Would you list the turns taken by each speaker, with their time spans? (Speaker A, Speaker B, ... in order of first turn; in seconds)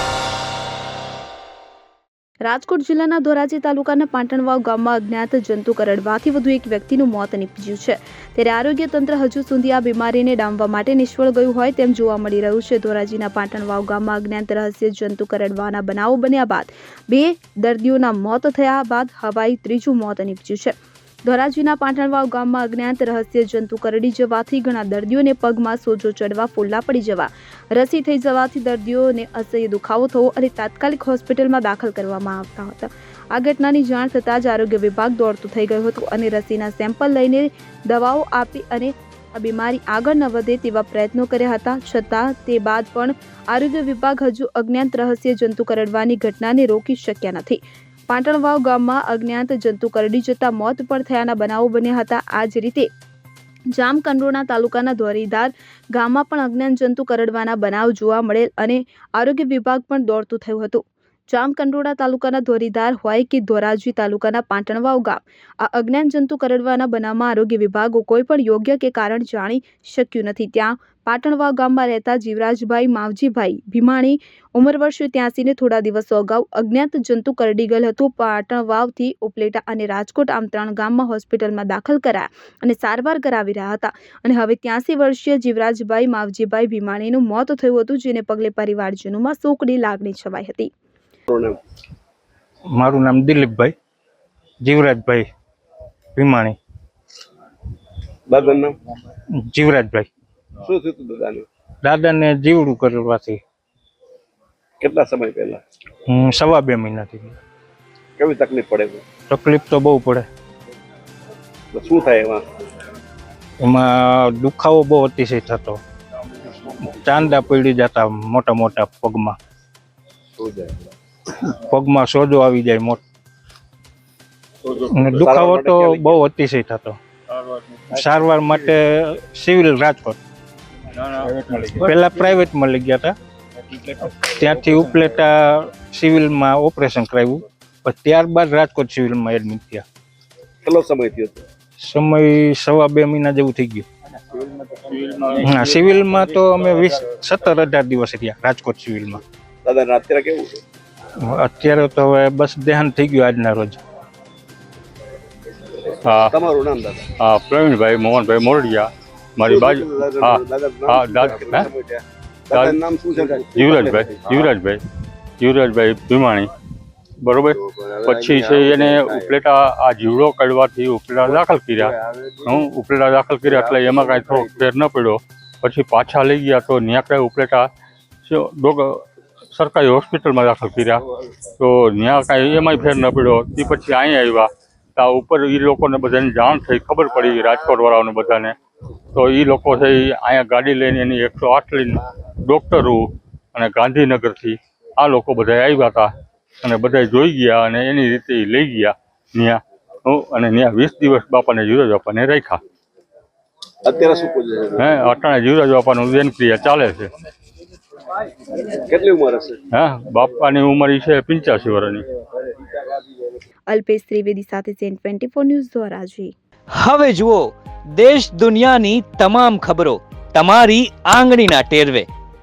Speaker A: 2.4-52.9, 53.7-90.7, 213.7-216.3
Speaker B: 91.3-91.6, 98.3-98.8, 100.6-101.5, 104.8-105.6, 108.2-109.0, 111.7-112.5, 120.4-120.9, 125.2-126.2, 140.6-141.4, 149.6-150.6, 156.3-157.1, 159.4-164.5, 167.6-169.3, 171.8-172.6, 173.5-174.4, 203.8-204.9, 208.7-209.6
Speaker C: 92.8-93.7, 94.6-95.3, 96.2-96.6, 99.3-100.1, 101.8-103.4, 106.1-107.3, 109.3-110.3, 113.6-115.8, 116.8-119.4, 121.5-123.0, 124.8-127.0, 127.9-130.2, 131.6-133.1, 133.8-139.8, 141.8-143.8, 145.4-149.2, 151.2-153.8
Speaker D: 156.0-156.3, 157.2-161.7, 162.5-162.8, 163.4-164.8, 165.4-166.5, 167.2-177.7, 178.2-181.0, 181.6-188.6, 189.1-196.1, 196.6-202.6, 204.8-207.1, 209.7-212.0
Speaker E: 216.8-222.1